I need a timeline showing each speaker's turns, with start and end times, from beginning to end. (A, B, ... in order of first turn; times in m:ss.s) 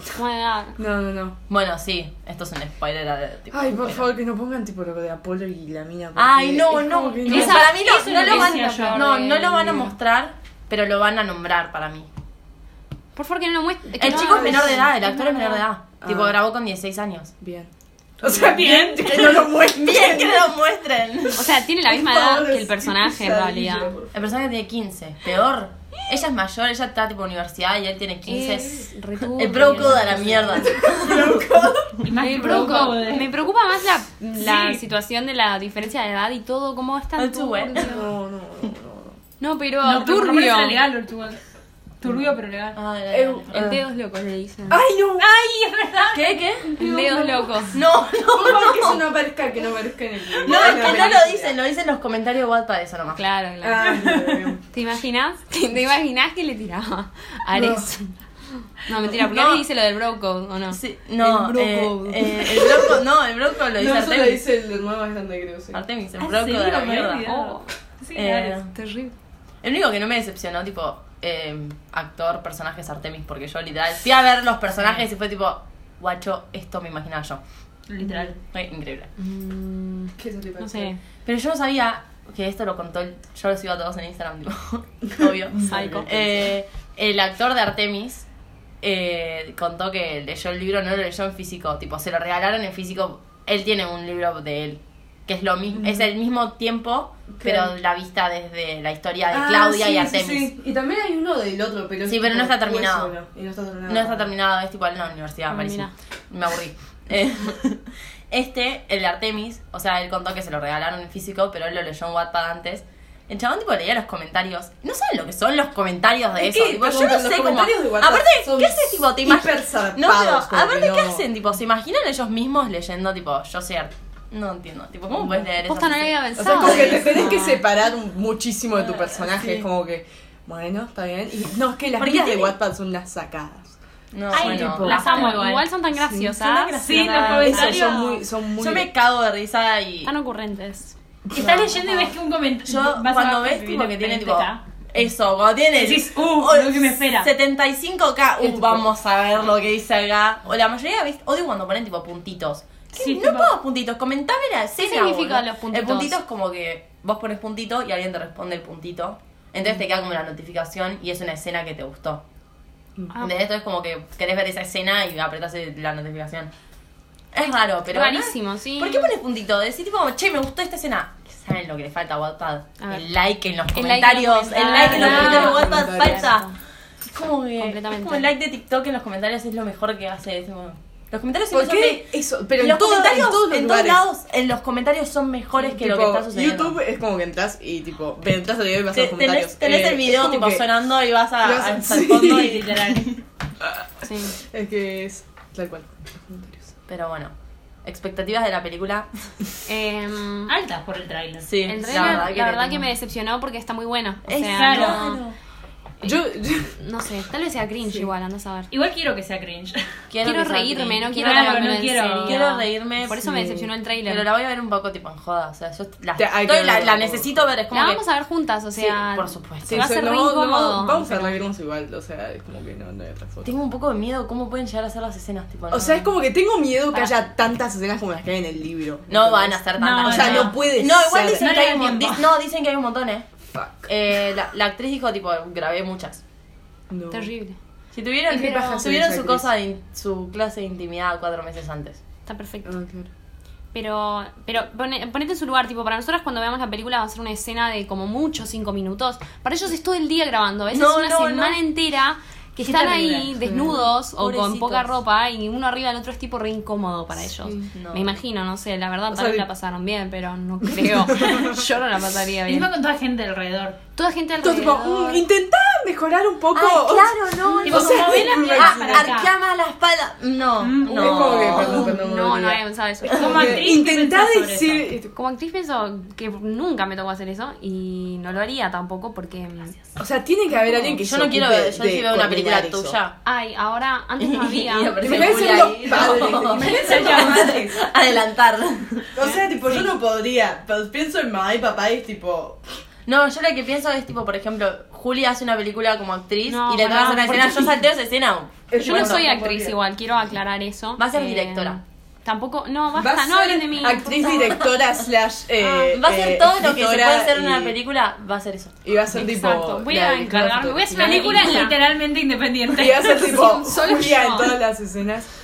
0:00.1-0:00.8 A
0:00.8-0:01.4 B
0:01.5-0:04.0 C
0:03.5-0:07.7 B
0:06.2-0:12.1 C
0:07.2-0:09.1 D
0:07.3-0:09.9 A
0:13.1-0:15.6 A
0:14.0-0:17.3 C
0:14.0-0:14.9 B
0:16.0-0:16.4 B
0:17.4-0:17.7 B
0:18.2-0:20.5 B
0:18.2-0:19.4 D
0:19.1-0:21.5 C
0:21.4-0:23.9 A
0:21.8-0:24.3 B
0:24.1-0:31.5 C
0:28.2-0:30.6 A
0:29.5-0:32.0 B
0:32.0-0:33.3 D
0:32.2-0:38.0 A
0:34.4-0:34.8 D
0:37.2-0:38.0 C
0:37.8-0:39.2 B
0:39.4-0:40.8 A
0:39.8-0:41.4 D
0:42.0-0:42.8 D
0:42.7-0:43.8 C
0:43.1-0:43.8 B
0:43.5-0:44.8 A
0:44.7-0:45.3 B
0:45.2-0:46.4 D
0:46.1-0:46.8 C
0:46.8-0:47.8 A
0:46.8-0:47.5 B
0:47.7-0:49.0 C
0:48.3-0:51.6 B
0:50.4-0:53.2 C
0:53.1-0:54.1 A
0:53.6-0:54.6 B
0:54.0-0:54.4 D
0:54.7-1:02.6 A
0:57.5-0:57.9 B
0:59.0-0:59.6 C
1:00.7-1:04.4 C
1:01.3-1:03.0 B
1:03.8-1:05.8 B
1:05.7-1:07.3 C
1:06.2-1:08.6 D
1:07.2-1:07.7 A
1:08.1-1:08.7 C
1:08.8-1:09.1 A
1:09.6-1:17.4 C
1:17.9-1:18.4 D
1:18.0-1:19.1 C
1:19.2-1:21.0 A
1:20.2-1:20.9 B
1:21.2-1:28.2 C
1:25.2-1:26.3 B
1:25.7-1:26.1 A
1:28.8-1:40.5 C
1:37.3-1:37.7 B
1:39.3-1:44.3 B
1:42.0-1:43.1 C
1:43.9-2:07.2 C
1:45.5-1:45.9 A
1:56.4-2:01.2 B
2:05.6-2:07.6 A
2:06.4-2:13.8 B
2:08.9-2:09.6 C
2:12.0-2:12.6 C
2:14.1-2:15.0 C
2:14.3-2:15.7 D
2:14.3-2:15.3 B
2:14.7-2:18.2 A
2:16.0-2:16.3 B
2:16.3-2:18.2 D
2:16.8-2:18.9 B
2:18.6-2:20.1 C
2:20.0-2:21.0 A
2:21.3-2:24.6 D
2:21.3-2:21.7 B
2:22.6-2:42.2 C
2:25.7-2:27.3 D
2:28.4-2:28.9 B
2:32.9-2:33.5 D
2:34.8-2:36.2 A
2:43.2-2:46.5 C
2:47.3-2:56.5 C
2:47.9-2:49.1 A
2:52.8-2:53.0 A
2:53.7-2:56.6 A
2:54.7-2:56.3 B
2:54.7-2:55.6 D
2:57.0-3:06.8 C
2:57.6-2:58.3 A
3:01.5-3:04.0 B
3:05.6-3:10.6 B
3:08.9-3:13.2 C
3:11.4-3:12.6 B
3:12.2-3:13.1 D
3:13.6-3:16.7 B
3:14.0-3:14.4 A
3:16.9-3:19.1 C
3:19.6-3:20.5 A
3:20.5-3:22.3 D
3:21.4-3:22.9 C
3:21.6-3:25.2 A
3:24.2-3:25.4 C
3:24.5-3:25.2 D
3:26.0-3:26.8 B
3:26.8-3:28.7 A
3:28.7-3:29.8 D
3:30.1-3:31.7 C
3:30.2-3:34.2 A
3:31.1-3:32.4 D
3:32.2-3:38.0 C
3:36.2-3:37.5 B
3:37.7-3:41.4 A
3:38.9-3:39.9 C
3:39.6-3:43.5 B
3:43.4-3:46.1 C
3:45.7-3:51.5 B
3:49.1-3:53.3 C
3:49.8-3:50.7 D
3:51.3-3:52.3 D
3:53.5-3:53.9 B
3:53.8-3:56.2 C
3:56.9-3:57.3 B
3:57.1-3:57.6 A
3:57.9-4:02.0 C
3:58.3-3:59.5 B
3:58.4-3:58.8 A
4:02.2-4:02.7 A
4:02.6-4:03.1 B
4:03.7-4:22.7 A
4:10.7-4:11.6 C
4:12.6-4:13.4 D
4:13.4-4:13.8 B
4:14.2-4:14.9 C
4:17.4-4:17.7 B
4:17.7-4:18.1 C
4:19.1-4:19.4 B
4:20.8-4:21.5 B
4:22.5-4:23.8 D
4:23.9-4:25.2 A
4:24.4-4:29.1 B
4:26.5-4:31.9 C
4:27.4-4:28.6 A
4:27.6-4:29.3 D
4:30.6-4:31.7 D
4:30.8-4:35.1 B
4:31.5-4:33.7 A
4:33.1-4:34.9 D
4:35.1-4:39.8 A
4:40.0-4:43.0 B
4:40.8-4:43.2 C
4:43.2-4:46.2 A
4:44.2-4:49.1 C
4:45.0-4:47.6 B
4:45.9-4:47.7 D
4:49.1-4:52.6 B
4:53.1-4:59.2 C
4:56.4-4:57.8 A
4:58.7-4:59.8 B
4:58.8-5:04.6 A
5:01.0-5:01.8 C
5:02.9-5:07.7 B
5:05.6-5:08.8 C
5:08.8-5:11.7 B
5:09.1-5:11.8 A
5:10.9-5:13.5 D
5:12.7-5:15.3 B
5:13.1-5:14.6 A